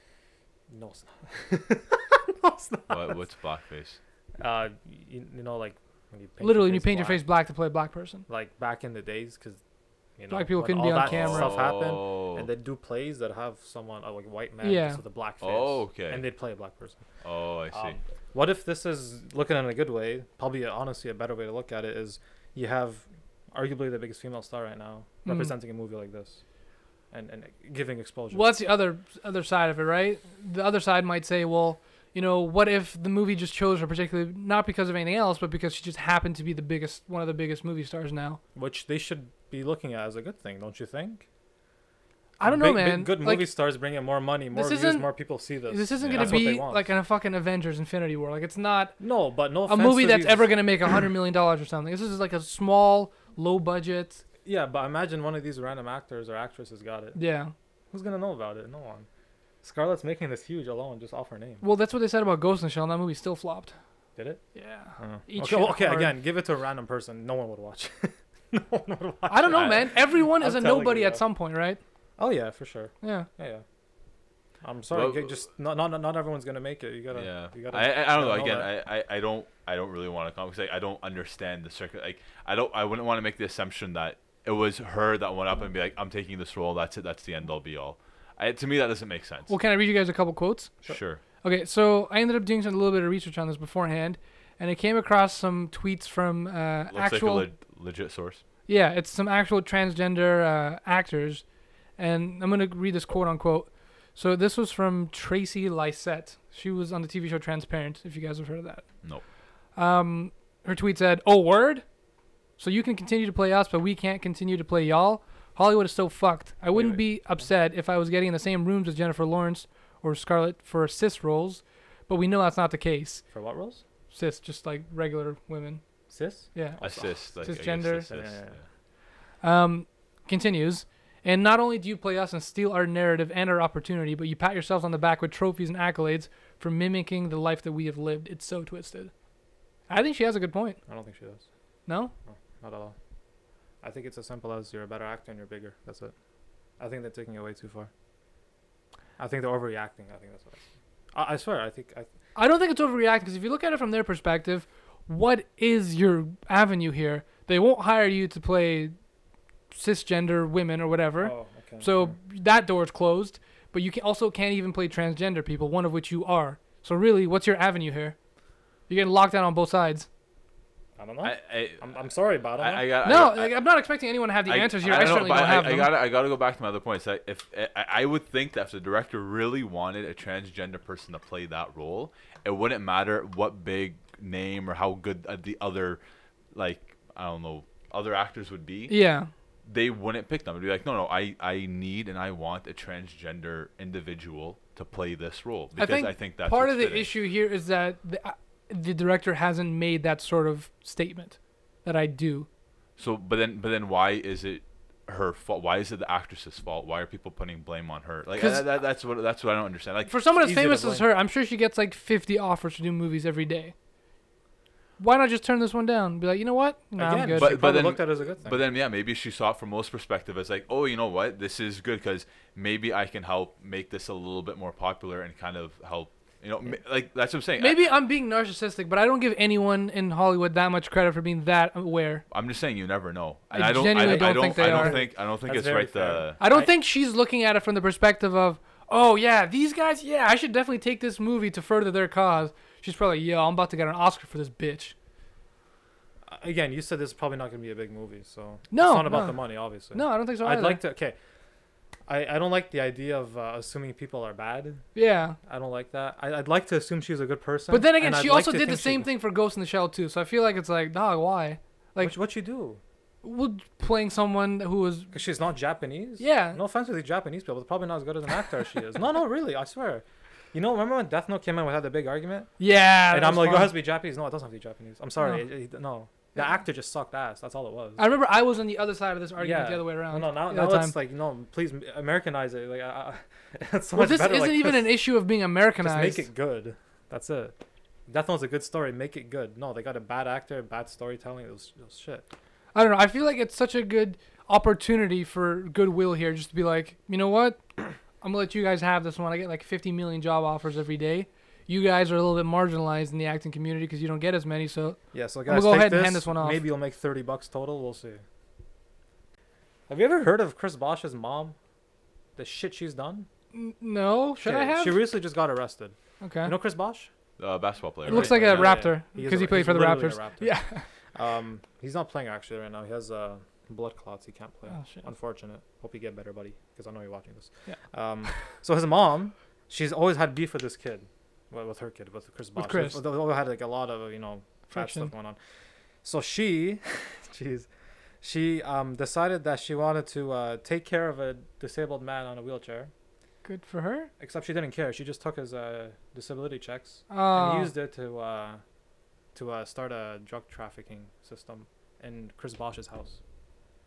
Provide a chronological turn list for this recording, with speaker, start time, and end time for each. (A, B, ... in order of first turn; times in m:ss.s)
0:00.7-0:03.2 A
0:02.9-0:04.0 B
0:04.4-0:07.2 A
0:06.4-0:08.2 C
0:08.3-0:09.6 A
0:10.2-0:17.0 A
0:10.3-0:11.6 C
0:11.0-0:12.5 B
0:14.6-0:15.0 C
0:15.4-0:16.3 B
0:17.2-0:18.0 B
0:17.7-0:26.4 A
0:25.2-0:25.5 C
0:27.1-0:28.5 A
0:28.3-0:38.4 C
0:38.6-0:41.2 A
0:42.4-0:43.5 C
0:42.4-0:46.9 A
0:44.5-0:45.1 C
0:45.7-0:49.0 C
0:46.0-0:46.5 B
0:49.0-0:50.6 A
0:49.7-0:54.2 C
0:54.4-0:57.2 A
0:57.2-0:57.5 C
0:57.9-0:59.1 A
0:59.6-1:01.6 A
1:01.6-1:03.8 C
1:04.2-1:04.4 A
1:04.6-1:06.1 C
1:05.0-1:11.2 A
1:09.3-1:11.8 C
1:09.5-1:09.9 B
1:12.2-1:13.6 A
1:13.0-1:13.3 C
1:14.6-1:18.7 A
1:14.9-1:15.4 B
1:17.1-1:29.5 B
1:29.5-1:30.8 C
1:30.9-1:31.2 B
1:31.4-1:37.5 C
1:36.9-1:38.4 B
1:38.7-1:41.4 C
1:42.0-1:48.9 C
1:49.8-1:51.8 C
1:52.6-2:03.2 C
1:56.7-1:57.1 A
2:03.3-2:03.8 A
2:04.1-2:05.8 C
2:06.1-2:07.2 A
2:06.5-2:08.1 C
2:06.8-2:08.6 B
2:08.1-2:08.6 A
2:09.4-2:19.1 C
2:19.9-2:20.8 C
2:20.9-2:21.4 A
2:21.9-2:22.1 C
2:22.3-2:23.0 A
2:23.8-2:26.1 A
2:26.8-2:27.9 A
2:29.2-2:32.1 A
2:32.4-2:39.0 C
2:39.7-2:48.2 C
2:41.2-2:42.2 A
2:48.9-2:50.1 C
2:51.0-2:52.9 A
2:51.2-2:52.0 B
2:52.6-2:53.6 B
2:53.0-2:55.9 C
2:54.5-3:06.0 B
3:06.5-3:09.0 B
3:08.9-3:09.3 C
3:09.7-3:17.1 B
3:15.8-3:22.5 C
3:23.0-3:30.2 B
3:28.4-3:28.7 C
3:30.1-3:33.7 C
3:30.4-3:31.1 A
3:35.0-3:37.6 C
3:37.0-3:38.7 A
3:37.4-3:47.9 B
3:47.6-3:52.2 C
3:52.3-3:56.4 B
3:53.5-3:55.0 C
3:53.9-3:56.7 A
3:56.4-4:04.9 C
4:06.3-4:11.2 A
4:08.7-4:10.8 C
4:12.1-4:14.8 A
4:15.0-4:15.4 C
4:15.5-4:19.1 A
4:17.7-4:22.2 C
4:22.0-4:22.8 A
4:23.2-4:25.1 C
4:25.1-4:32.5 A
4:26.2-4:26.6 C
4:32.6-4:33.8 C
4:33.1-4:38.0 A
4:38.0-4:41.0 C
4:39.4-4:45.0 A
4:44.0-4:46.3 C
4:45.8-4:47.5 A
4:48.1-4:52.3 A
4:52.7-4:57.6 C
4:58.2-5:06.6 C
5:05.1-5:08.2 A
5:09.9-5:11.6 A
5:12.4-5:13.3 A
5:13.5-5:15.0 C
5:14.4-5:17.1 A
5:16.2-5:16.5 C
5:17.4-5:18.9 B
5:18.0-5:20.6 A
5:18.1-5:20.8 C
5:21.2-5:35.4 A
5:24.7-5:25.1 C
5:32.6-5:33.0 C
5:34.7-5:35.1 C
5:36.0-5:37.7 A
5:38.2-5:42.9 A
5:43.4-5:44.1 C
5:44.2-5:48.6 A
5:47.1-5:47.7 C
5:49.4-5:53.2 A